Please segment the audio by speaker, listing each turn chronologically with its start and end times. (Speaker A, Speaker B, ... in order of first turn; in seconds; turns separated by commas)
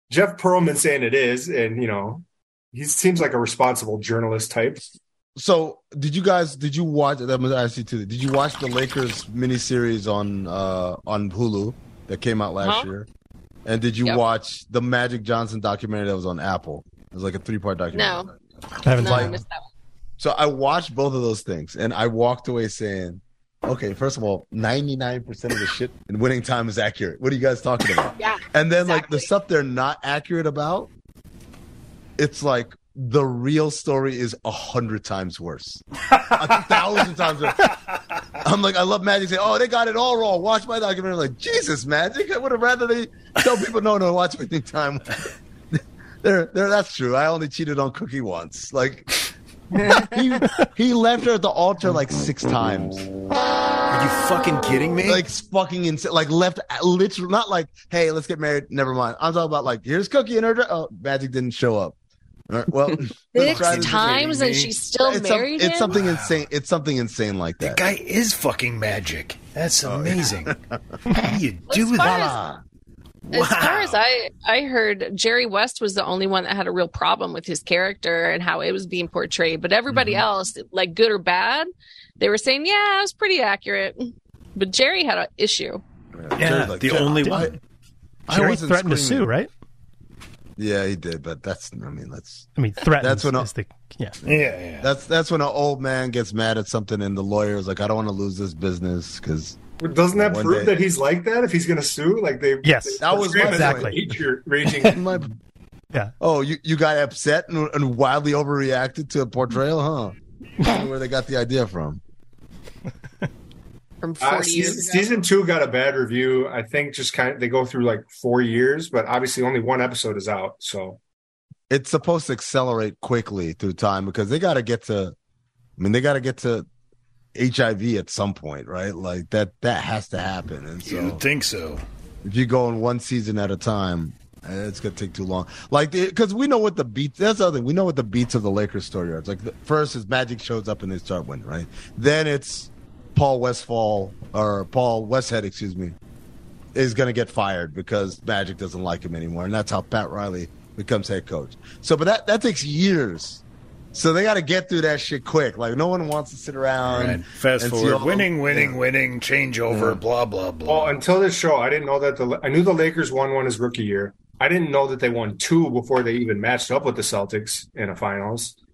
Speaker A: 0.1-5.0, Speaker B: 5.3-13.1, Speaker C: 12.6-12.9, Speaker B: 13.6-18.3, Speaker C: 17.9-18.3, Speaker D: 18.8-19.4, Speaker C: 18.9-19.6, Speaker B: 19.0-19.4, Speaker B: 20.2-30.9, Speaker C: 28.2-29.3, Speaker B: 32.2-37.8, Speaker B: 38.4-45.2, Speaker B: 46.2-49.2, Speaker B: 49.8-53.1, Speaker E: 53.9-55.2, Speaker B: 55.0-62.0, Speaker B: 62.5-64.4, Speaker C: 63.3-65.9, Speaker E: 63.4-64.7, Speaker B: 65.0-67.8, Speaker E: 65.9-66.4, Speaker E: 67.6-70.5, Speaker B: 69.8-70.8, Speaker E: 71.1-72.3, Speaker C: 71.7-72.3, Speaker B: 72.0-72.6, Speaker E: 73.3-74.0, Speaker C: 73.3-81.7, Speaker E: 79.9-80.2, Speaker C: 82.2-85.8, Speaker B: 86.2-87.5, Speaker E: 86.3-87.6, Speaker B: 88.3-89.3, Speaker D: 88.3-89.5, Speaker B: 90.6-93.5, Speaker D: 92.5-94.2, Speaker E: 94.2-94.9, Speaker B: 94.2-99.6, Speaker A: 99.8-105.0, Speaker B: 100.1-100.7, Speaker D: 102.6-104.0, Speaker B: 103.0-103.9, Speaker B: 104.8-105.3, Speaker B: 106.2-112.0, Speaker C: 114.0-115.1, Speaker A: 114.2-121.0, Speaker B: 121.7-125.1, Speaker B: 125.8-126.7, Speaker B: 127.3-131.2, Speaker E: 130.8-131.8, Speaker B: 132.2-145.9, Speaker B: 146.7-153.4, Speaker B: 153.9-158.8, Speaker E: 156.8-161.0, Speaker B: 159.7-160.0, Speaker A: 160.7-168.6